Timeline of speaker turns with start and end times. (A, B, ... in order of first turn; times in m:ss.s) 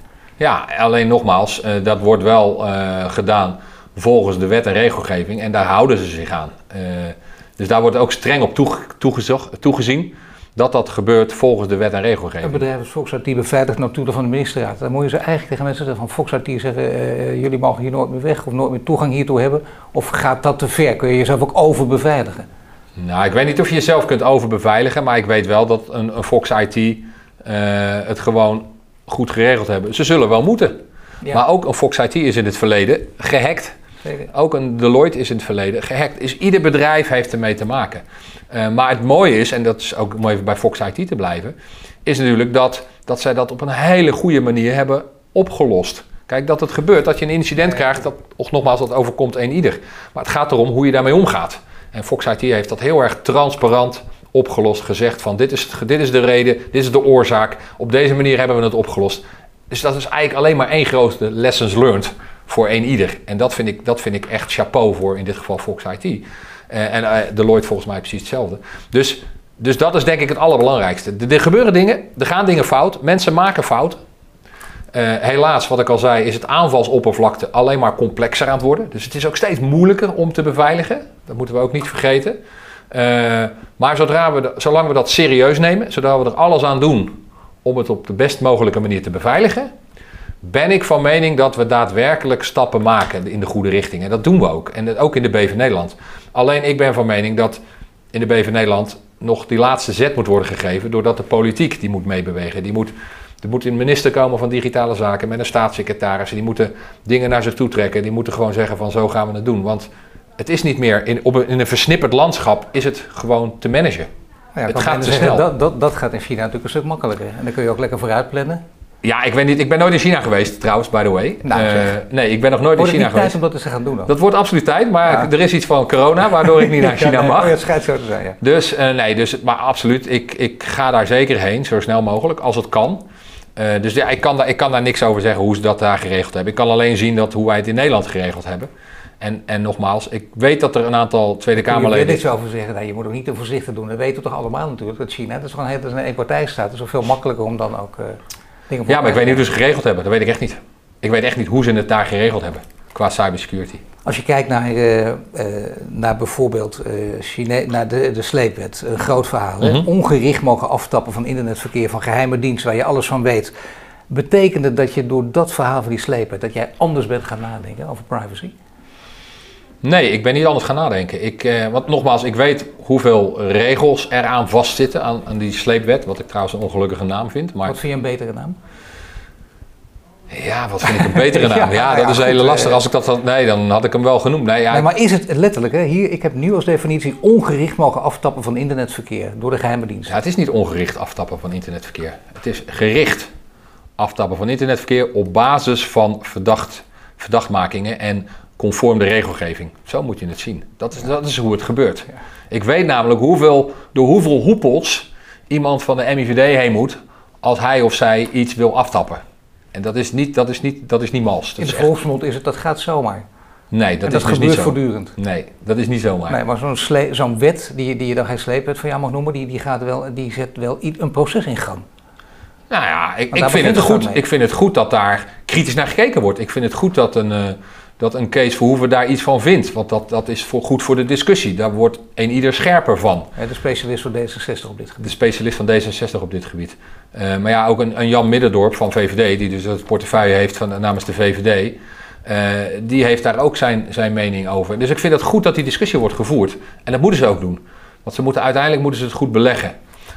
0:00.4-0:12.6 A
0:12.4-0:22.5 B
0:23.0-0:30.8 A
0:31.3-0:33.8 A
0:34.0-0:34.3 B
0:34.3-1:14.0 A
1:14.9-1:22.4 A
1:22.9-1:29.7 A
1:30.4-1:37.6 A
1:38.1-1:54.1 A
1:54.6-1:58.6 B
1:54.7-1:55.4 A
1:59.0-2:03.4 A
2:01.4-2:01.9 B
2:02.8-2:04.1 B
2:04.1-2:07.6 A
2:06.4-2:08.4 B
2:08.4-2:13.0 A
2:13.6-2:22.2 A
2:21.6-2:29.5 B
2:28.9-2:33.8 A
2:34.0-2:43.5 B
2:39.6-2:39.9 A
2:44.1-2:48.5 B
2:49.8-2:57.8 A
2:57.6-2:58.6 B
3:00.3-3:04.9 A
3:00.8-3:02.8 B
3:04.7-3:10.2 B
3:10.1-3:13.3 A
3:14.0-3:29.2 A
3:29.7-3:31.9 A
3:31.6-3:33.2 B
3:33.7-3:36.4 A
3:34.1-3:35.2 B
3:36.3-3:41.8 B
3:42.7-3:53.3 A
3:43.3-3:44.2 B
3:53.4-3:55.1 B
3:55.0-4:09.7 A